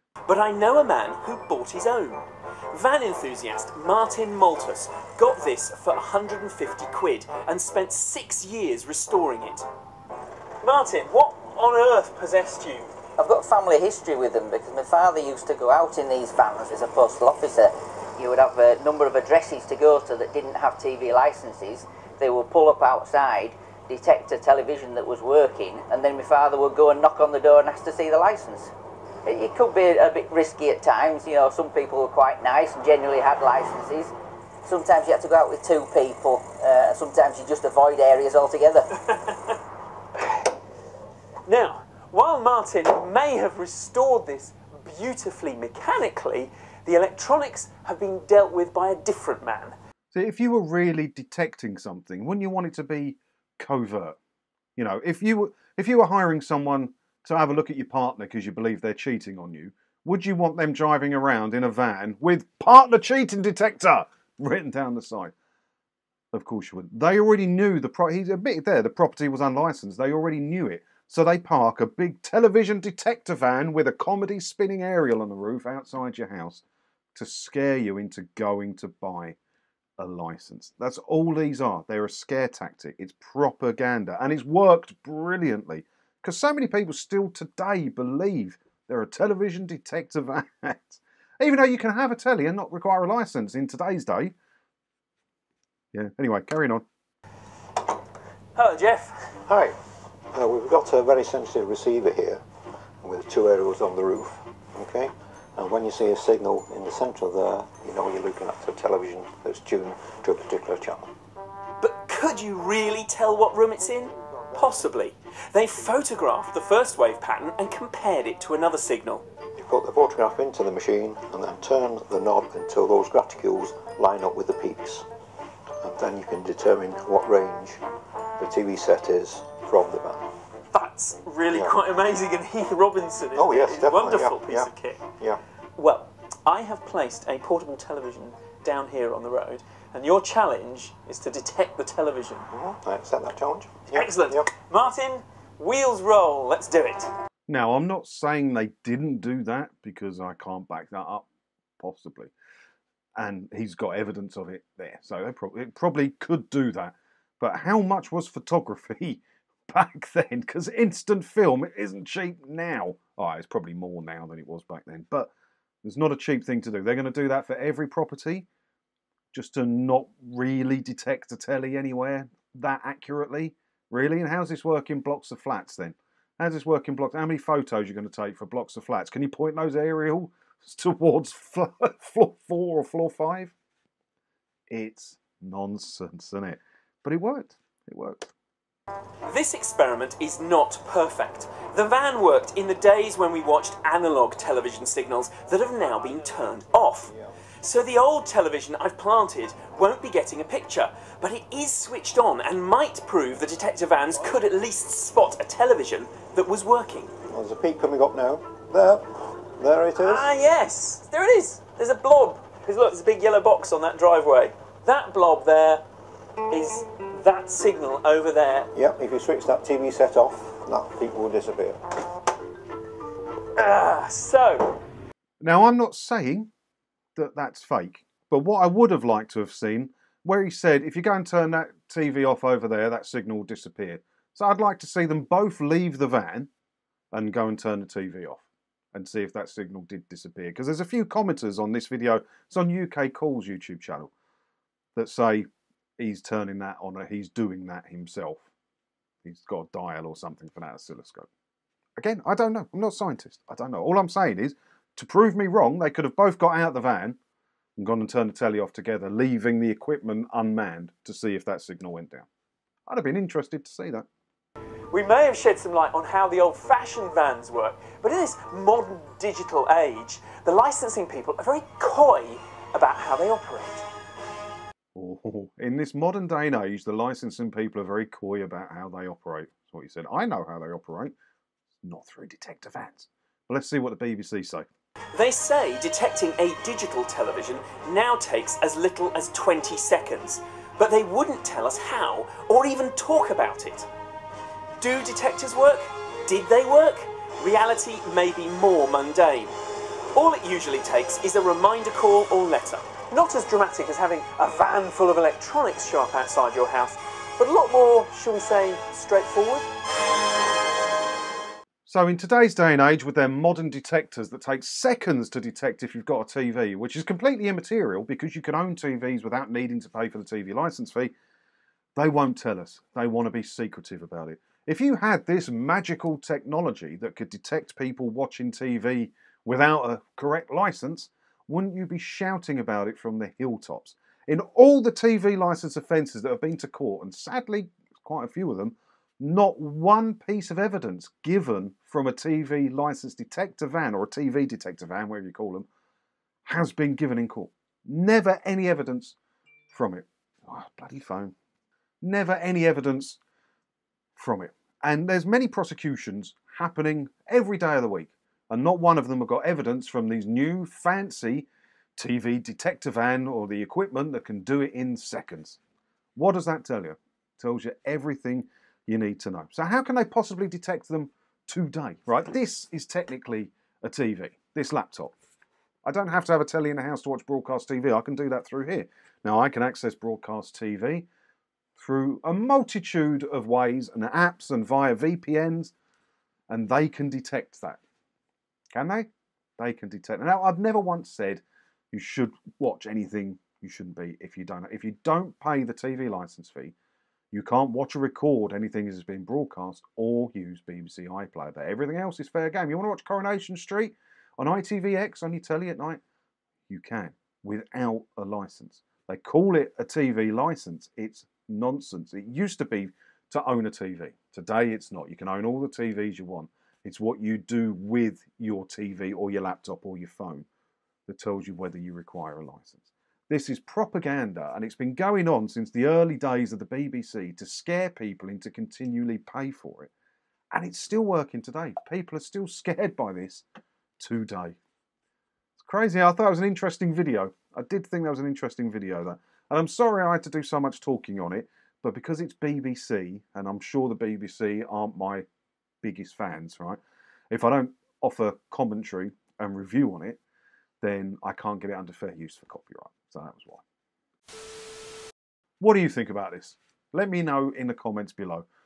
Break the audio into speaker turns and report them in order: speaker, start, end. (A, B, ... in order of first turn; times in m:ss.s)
0:00.3-0:09.7 A
0:10.6-0:12.9 A
0:13.2-0:28.7 B
0:29.3-0:34.1 B
0:34.6-0:38.9 B
0:39.1-0:39.6 A
0:41.5-0:49.8 A
0:50.1-0:54.2 C
0:54.8-1:05.3 C
1:06.3-1:16.6 C
1:17.2-1:19.4 C
1:20.0-1:34.3 C
1:35.9-1:36.8 C
1:38.6-1:39.4 A
1:39.5-1:39.8 D
1:40.3-1:42.4 D
1:43.0-1:51.1 D
1:51.8-1:59.2 A
1:59.6-2:05.1 D
2:05.8-2:07.8 D
2:08.4-2:10.3 D
2:10.7-2:15.0 A
2:11.5-2:11.8 D
2:13.4-2:15.4 D
2:15.8-2:22.5 A
2:22.5-2:24.5 D
2:23.9-2:27.1 A
2:27.5-2:31.3 C
2:31.8-2:32.3 C
2:33.2-2:45.3 C
2:45.8-2:48.5 C
2:49.3-3:03.6 C
3:04.7-3:08.3 C
3:09.3-3:27.1 A
3:17.1-3:17.3 D
3:27.3-3:30.3 D
3:30.0-3:35.8 A
3:36.5-3:38.7 A
3:38.7-3:41.8 D
3:43.6-3:44.8 A
3:45.4-3:46.5 C
3:47.2-3:56.5 C
3:57.1-4:04.1 C
4:05.0-4:05.5 C
4:06.0-4:08.5 C
4:09.2-4:11.3 C
4:12.0-4:17.2 C
4:17.8-4:22.3 C
4:22.9-4:24.1 C
4:24.9-4:33.9 A
4:35.0-4:41.1 C
4:41.8-4:44.7 C
4:45.1-4:53.9 A
4:54.8-4:59.6 A
5:00.2-5:09.7 A
5:11.9-5:21.1 C
5:22.0-5:45.7 C
5:46.5-5:49.2 C
5:49.7-5:51.4 C
5:52.0-5:53.2 C
5:54.2-6:05.6 C
6:06.2-6:15.1 C
6:15.8-6:21.1 C
6:21.8-6:25.7 C
6:26.5-6:27.8 C
6:28.7-6:29.1 C
6:29.6-6:36.8 C
6:37.3-6:46.0 C
6:46.7-7:00.5 C
7:01.1-7:09.9 C
7:10.5-7:13.4 C
7:14.0-7:14.6 C
7:15.6-7:25.3 C
7:25.8-7:26.8 C
7:27.3-7:30.2 C
7:30.8-7:33.6 C
7:35.6-7:38.5 C